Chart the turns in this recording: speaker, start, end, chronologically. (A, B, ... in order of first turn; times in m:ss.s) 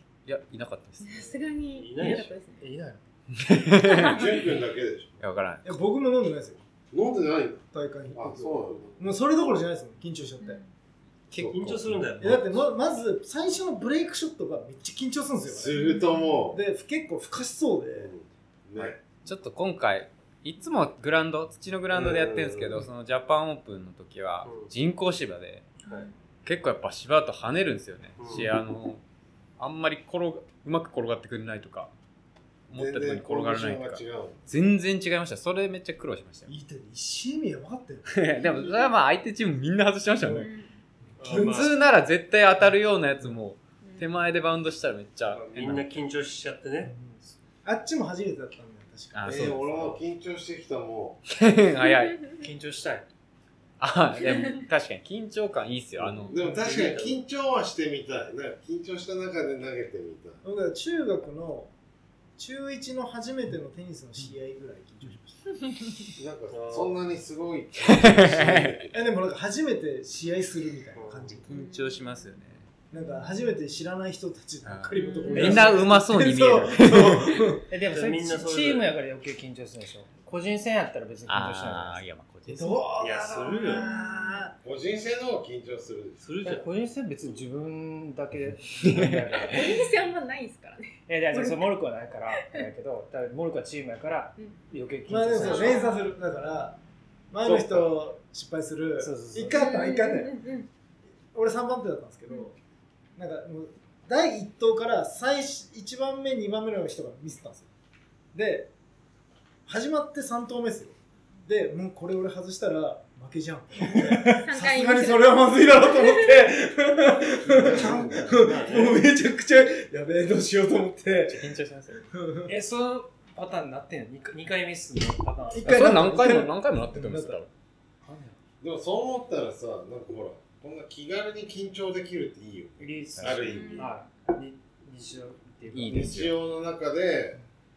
0:00.3-0:01.3 A
0:01.0-0:02.6 B
0:01.8-0:02.3 C
0:02.0-0:03.0 D
0:03.4-0:04.3 A
0:04.1-0:05.2 E
0:05.2-0:05.8 A
0:05.6-0:06.6 F
0:06.9-0:09.0 E
0:07.7-0:10.6 F
0:10.4-0:10.7 B
0:11.3-0:12.4 A
0:11.3-0:11.8 E
0:11.4-0:12.7 C
0:12.2-0:15.8 F
0:15.5-0:16.6 E
0:15.7-0:16.5 B
0:16.5-0:18.1 F
0:18.0-0:19.0 E
0:18.8-0:25.7 A
0:21.9-0:22.8 E
0:24.4-0:24.7 C
0:25.8-0:26.1 B
0:26.4-0:29.0 A
0:28.2-0:28.6 C
0:29.6-0:31.9 A
0:32.7-0:34.5 E
0:32.7-0:36.5 A
0:36.5-0:38.1 F
0:38.1-0:40.5 A
0:38.4-0:38.9 B
0:40.2-0:40.5 F
0:40.3-0:40.7 B
0:41.2-0:41.8 C
0:41.2-0:41.7 F
0:41.3-0:46.0 A
0:43.8-0:44.1 B
0:45.3-0:46.9 C
0:46.8-0:49.7 F
0:49.1-0:49.9 A
0:49.2-0:51.2 E
0:51.3-0:52.3 A
0:52.3-0:53.1 D
0:53.8-0:56.4 A
0:54.2-0:54.6 B
0:56.0-1:00.4 E
0:56.3-0:57.2 C
1:00.4-1:01.7 F
1:02.4-1:05.6 F
1:06.2-1:09.0 E
1:06.5-1:07.0 C
1:07.9-1:08.8 A
1:08.9-1:11.5 F
1:11.0-1:11.4 C
1:11.5-1:12.6 A
1:11.5-1:12.0 B
1:12.9-1:17.6 F
1:14.6-1:17.4 A
1:14.9-1:15.6 B
1:15.4-1:15.7 D
1:17.7-1:22.0 D
1:17.9-1:18.9 C
1:21.3-1:22.8 A
1:22.5-1:24.5 F
1:23.0-1:23.9 C
1:23.7-1:24.5 B
1:24.6-1:26.5 E
1:26.2-1:26.7 C
1:26.4-1:29.8 D
1:28.8-1:29.4 A
1:29.4-1:31.4 B
1:31.1-1:35.8 D
1:35.1-1:36.8 F
1:35.4-1:36.1 B
1:37.3-1:40.4 F
1:37.4-1:37.9 E
1:39.0-1:39.8 D
1:39.5-1:40.7 B
1:41.3-1:42.5 F
1:43.2-1:47.7 F
1:48.3-1:48.7 F
1:49.7-2:01.5 F
1:54.3-1:56.4 B
1:57.4-1:58.9 E
1:58.3-1:59.0 C
2:01.3-2:02.0 A
2:02.1-2:02.5 F
2:02.5-2:05.9 D
2:05.5-2:07.4 F
2:05.6-2:07.5 A
2:08.0-2:08.4 D
2:08.6-2:13.9 E
2:12.8-2:16.2 D
2:13.2-2:13.6 A
2:13.4-2:14.0 B
2:15.7-2:16.4 A
2:15.9-2:17.4 E